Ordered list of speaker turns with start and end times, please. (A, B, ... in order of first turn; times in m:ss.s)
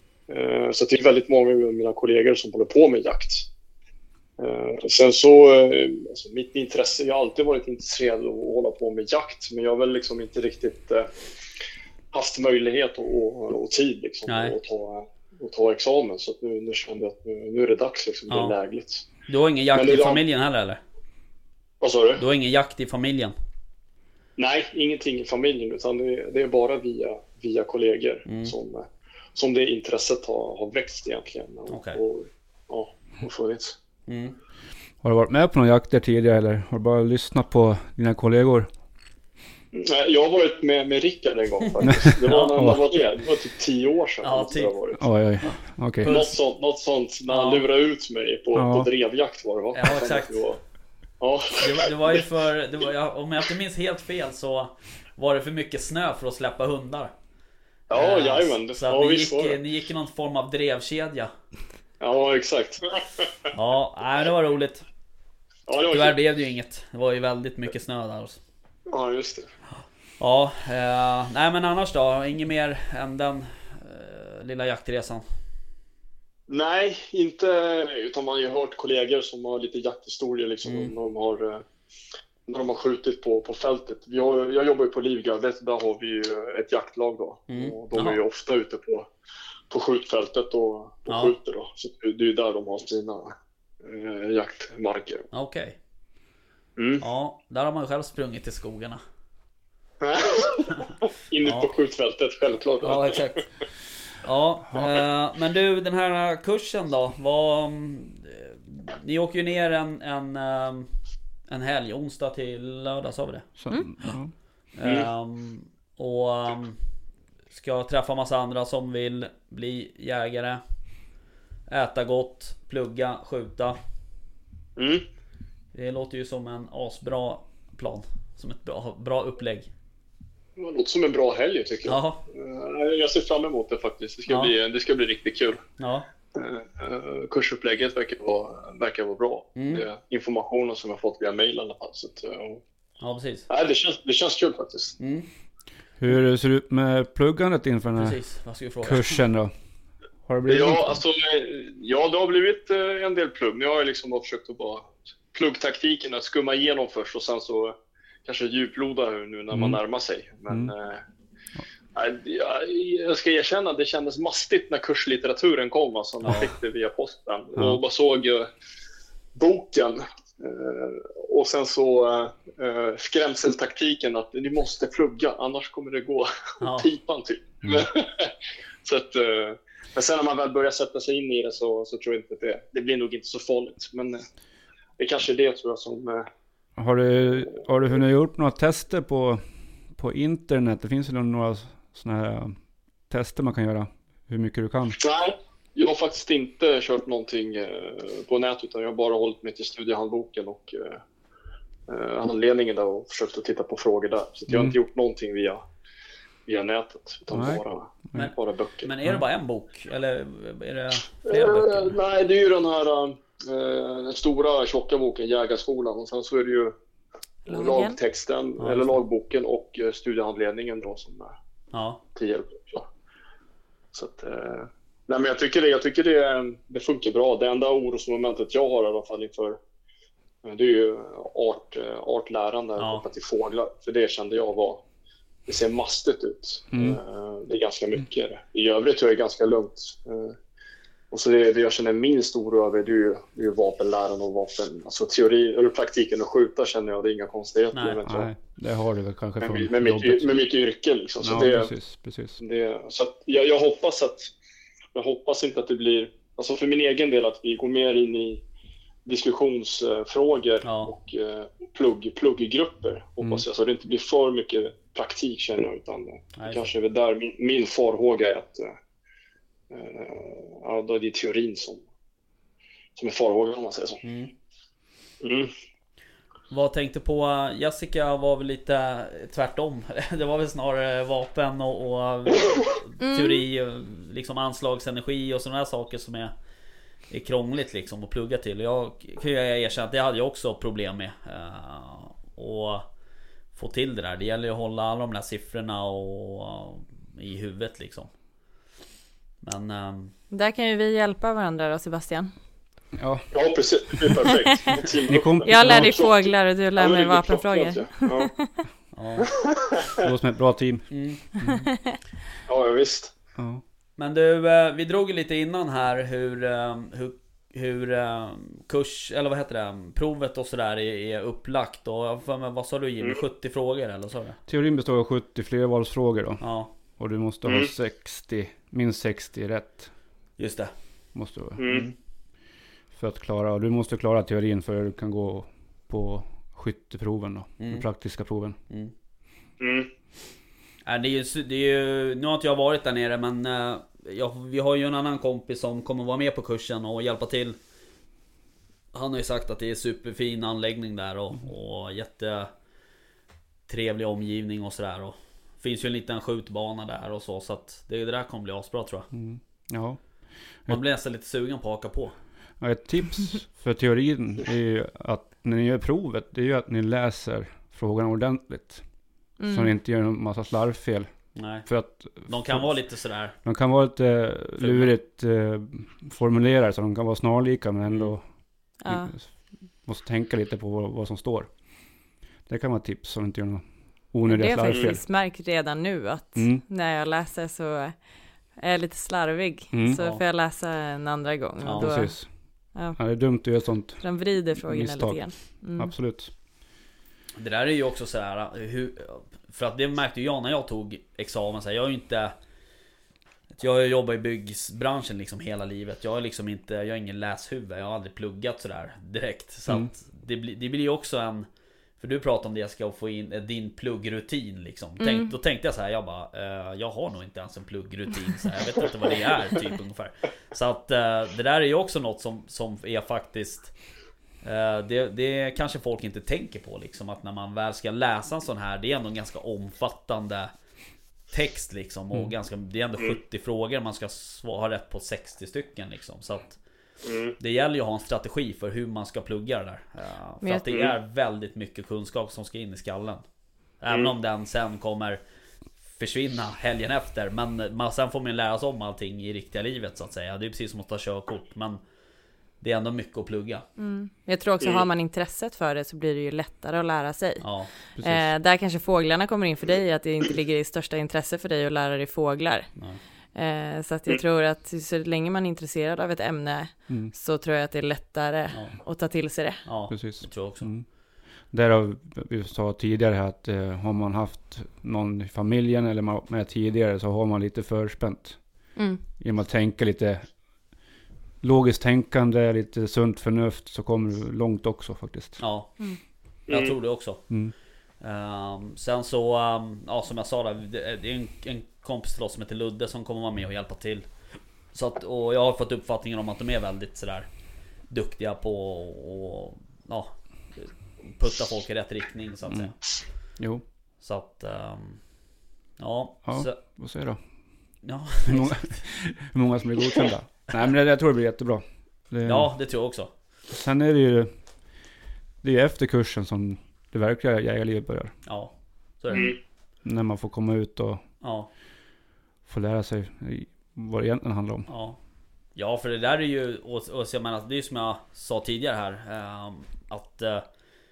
0:00.3-0:03.5 A
0:04.4-0:11.1 A
0:12.1-0:19.1 A
0:14.3-0:14.6 B
0:18.3-0:18.6 B
0:19.3-0:20.8 B
0:19.7-0:20.2 A
0:21.8-0:22.2 A
0:22.2-0:23.3 B
0:24.4-0:33.8 A
0:28.3-0:28.5 B
0:31.7-0:32.0 B
0:34.1-0:34.4 B
0:35.0-0:38.7 C
0:39.7-0:45.0 A
0:42.2-0:42.6 B
0:42.5-0:42.8 C
0:44.2-0:44.8 B
0:45.0-0:46.1 C
0:45.4-0:46.4 B
0:46.0-0:50.6 A
0:47.3-0:47.7 B
0:48.6-0:48.9 C
0:49.8-0:50.4 B
0:51.2-0:52.2 A
0:51.6-0:57.1 B
0:57.9-0:59.6 A
0:57.9-1:01.3 B
1:02.0-1:03.3 A
1:03.5-1:04.9 B
1:05.7-1:06.2 A
1:05.9-1:08.4 B
1:08.9-1:09.5 A
1:09.8-1:15.2 B
1:16.5-1:21.6 A
1:20.6-1:20.9 B
1:22.5-1:29.1 A
1:27.5-1:28.2 B
1:29.7-1:35.3 A
1:31.1-1:31.4 B
1:35.3-1:35.8 B
1:36.8-1:37.0 A
1:37.0-1:39.0 B
1:40.0-1:40.8 A
1:41.3-1:43.3 A
1:41.4-1:41.7 B
1:42.8-1:43.5 B
1:44.2-1:50.9 B
1:51.5-1:53.5 B
1:53.6-1:54.4 C
1:54.7-1:56.8 B
1:57.5-2:00.6 B
2:01.7-2:03.8 B
2:04.8-2:05.0 A
2:05.7-2:09.7 B
2:10.6-2:15.6 A
2:11.8-2:12.2 B
2:14.3-2:14.5 B
2:15.8-2:16.1 B
2:16.3-2:22.6 A
2:19.6-2:19.8 B
2:23.0-2:23.5 B
2:23.5-2:25.0 A
2:25.0-2:25.3 B
2:26.0-2:28.2 C
2:28.0-2:29.1 B
2:28.8-2:29.5 C
2:30.3-2:31.0 C
2:30.5-2:41.0 A
2:39.5-2:39.8 C
2:42.0-2:48.5 A
2:46.2-2:46.5 B
2:49.3-2:58.3 A
2:56.6-2:56.9 B
2:58.8-3:04.2 A
3:05.0-3:06.3 A
3:06.8-3:15.0 C
3:15.0-3:21.0 A
3:21.9-3:25.6 A
3:24.5-3:24.8 C
3:26.5-3:28.9 A
3:27.3-3:27.6 C
3:28.1-3:32.0 B
3:31.2-3:36.8 A
3:37.5-3:41.3 A
3:37.5-3:38.0 D
3:38.6-3:39.0 B
3:41.7-3:42.0 B
3:42.1-3:42.9 A
3:43.9-3:49.6 A
3:50.4-3:54.8 A
3:52.8-3:53.1 B
3:55.5-4:00.4 A
3:56.7-3:57.0 C
4:01.1-4:08.3 A
4:07.7-4:08.0 B
4:08.0-4:10.3 C
4:09.4-4:11.7 A
4:11.2-4:12.4 C
4:12.4-4:14.3 A
4:14.9-4:18.4 A
4:19.0-4:28.8 A
4:20.6-4:20.9 B
4:26.4-4:26.7 B
4:29.7-4:31.8 A
4:33.0-4:34.0 A
4:34.0-4:34.3 B
4:35.2-4:35.5 A
4:36.5-4:46.3 B
4:43.0-4:43.4 D
4:47.1-4:52.9 B
4:53.5-4:58.1 B
4:59.4-5:00.2 B
5:00.3-5:02.3 D
5:03.0-5:03.3 C
5:03.3-5:08.3 A
5:05.1-5:06.0 C
5:05.5-5:08.5 D
5:08.9-5:09.3 B
5:09.2-5:10.1 A
5:10.0-5:11.7 C
5:10.9-5:11.5 B
5:12.5-5:13.1 A
5:13.4-5:13.6 C
5:14.0-5:24.4 B
5:24.5-5:29.9 C
5:26.4-5:26.7 B
5:27.4-5:27.7 A
5:30.4-5:30.7 B
5:31.1-5:31.7 C
5:31.6-5:31.9 A
5:31.6-5:31.9 B
5:32.9-5:38.6 C
5:37.6-5:37.8 B
5:39.6-5:39.9 A
5:40.8-5:47.6 B
5:48.9-5:52.5 B
5:53.7-5:59.1 B
5:59.1-6:00.8 C
6:00.7-6:02.1 B
6:02.6-6:12.8 C
6:09.4-6:09.7 D
6:11.4-6:13.4 B
6:13.4-6:25.0 C
6:14.6-6:14.9 B
6:18.8-6:19.1 D
6:24.3-6:33.4 D
6:26.4-6:26.6 C
6:29.7-6:30.0 C
6:30.0-6:30.2 B
6:31.6-6:32.0 B
6:31.7-6:36.3 C
6:34.0-6:35.9 D
6:37.4-6:42.3 B
6:43.6-6:51.5 B
6:52.0-7:03.8 B
6:55.0-6:55.3 D
7:04.4-7:10.5 B
7:11.3-7:16.6 B
7:17.0-7:17.4 A
7:17.4-7:23.2 B
7:20.7-7:21.0 A
7:23.8-7:25.2 B
7:25.9-7:31.8 B
7:32.6-7:33.7 B
7:33.8-7:42.8 D
7:34.6-7:34.9 A
7:37.4-7:37.7 B
7:38.0-7:38.3 C
7:43.4-7:49.7 D
7:46.9-7:47.1 C
7:48.5-7:48.8 B
7:49.6-7:50.7 B
7:49.9-7:50.9 C
7:51.5-8:00.4 C
7:58.8-7:59.0 D
8:01.4-8:05.4 C
8:05.4-8:14.1 B
8:06.5-8:06.8 A
8:14.7-8:17.3 B
8:17.9-8:22.9 B
8:23.4-8:23.6 C
8:24.0-8:25.0 B
8:25.8-8:26.6 B
8:26.3-8:27.2 C
8:27.8-8:28.8 B
8:28.3-8:32.5 C
8:32.2-8:33.1 B
8:33.5-8:34.4 C
8:35.4-8:38.2 C
8:38.3-8:39.4 B
8:39.1-8:39.4 A
8:39.8-8:41.0 C
8:41.2-8:41.5 B
8:42.4-8:44.7 C
8:44.7-8:45.0 B
8:45.5-8:50.4 B